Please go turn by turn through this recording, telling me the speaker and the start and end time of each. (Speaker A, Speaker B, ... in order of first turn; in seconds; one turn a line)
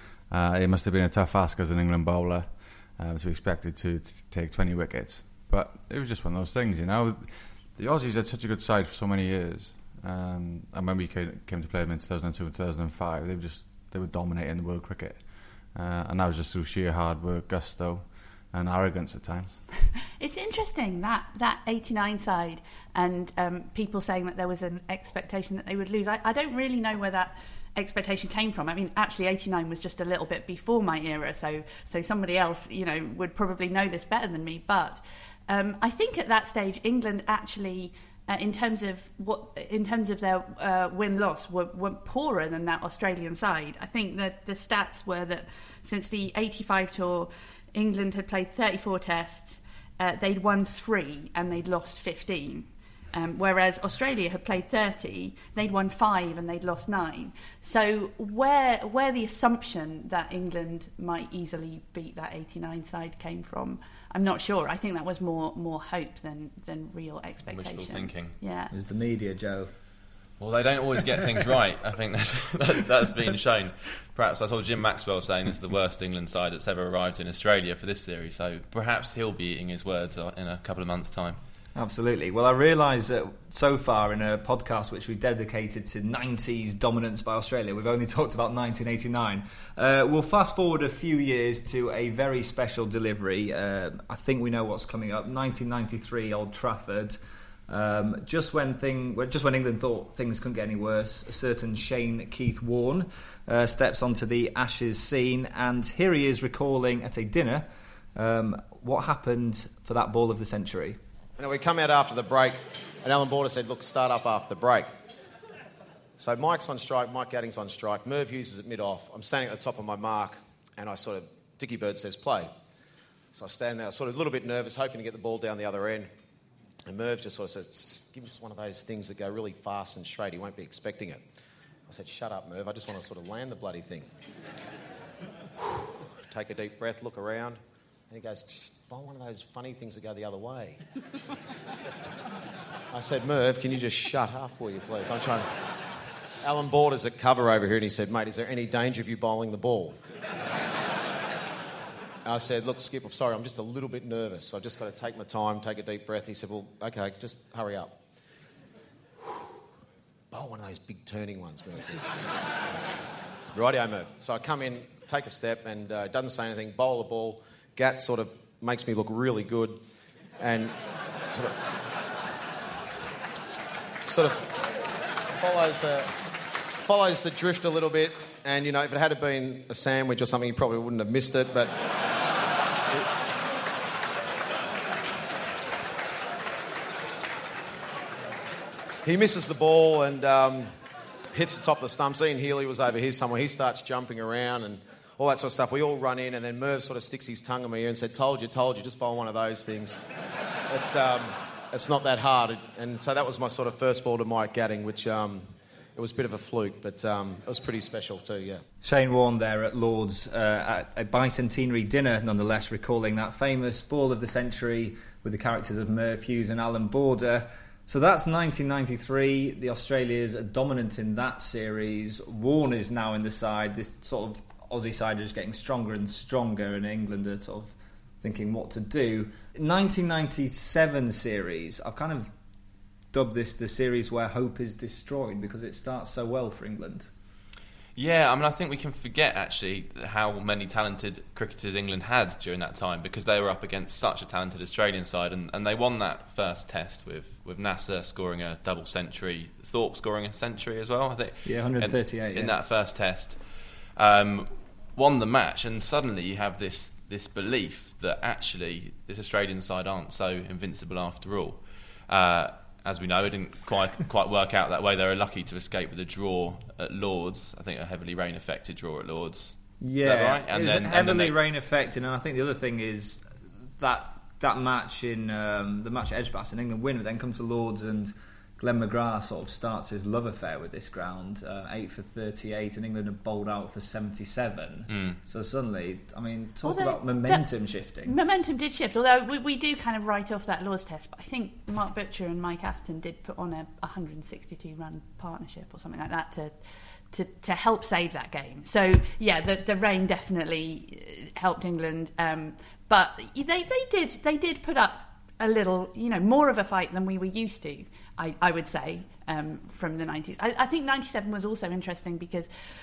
Speaker A: 0.3-15.2
Speaker A: 15.7-19.6
Speaker B: 20.2-68.7
Speaker C: 67.5-68.4
Speaker D: 68.7-69.7
Speaker C: 70.4-81.4
Speaker D: 81.8-111.0
Speaker E: 111.4-114.9
Speaker E: 116.2-122.5
Speaker E: 123.3-126.1
Speaker E: 126.9-131.2
Speaker E: 131.9-134.1
Speaker E: 136.3-137.6
Speaker E: 138.1-140.8
Speaker E: 142.9-145.5
Speaker E: 146.4-150.0
Speaker E: 152.2-158.0
Speaker E: 160.3-162.1
Speaker E: 163.5-169.8
Speaker E: 170.4-170.8
Speaker E: 171.3-171.6
Speaker E: 174.1-174.5
Speaker E: 175.4-176.2
Speaker E: 176.8-181.8
Speaker E: 189.0-190.7
Speaker E: 191.3-200.0
Speaker E: 200.7-208.6
Speaker D: 208.8-232.3
Speaker D: 233.1-237.1
Speaker C: 237.9-271.4
Speaker D: 251.4-252.5
Speaker D: 269.8-288.2
Speaker C: 284.9-285.2
Speaker B: 286.6-312.5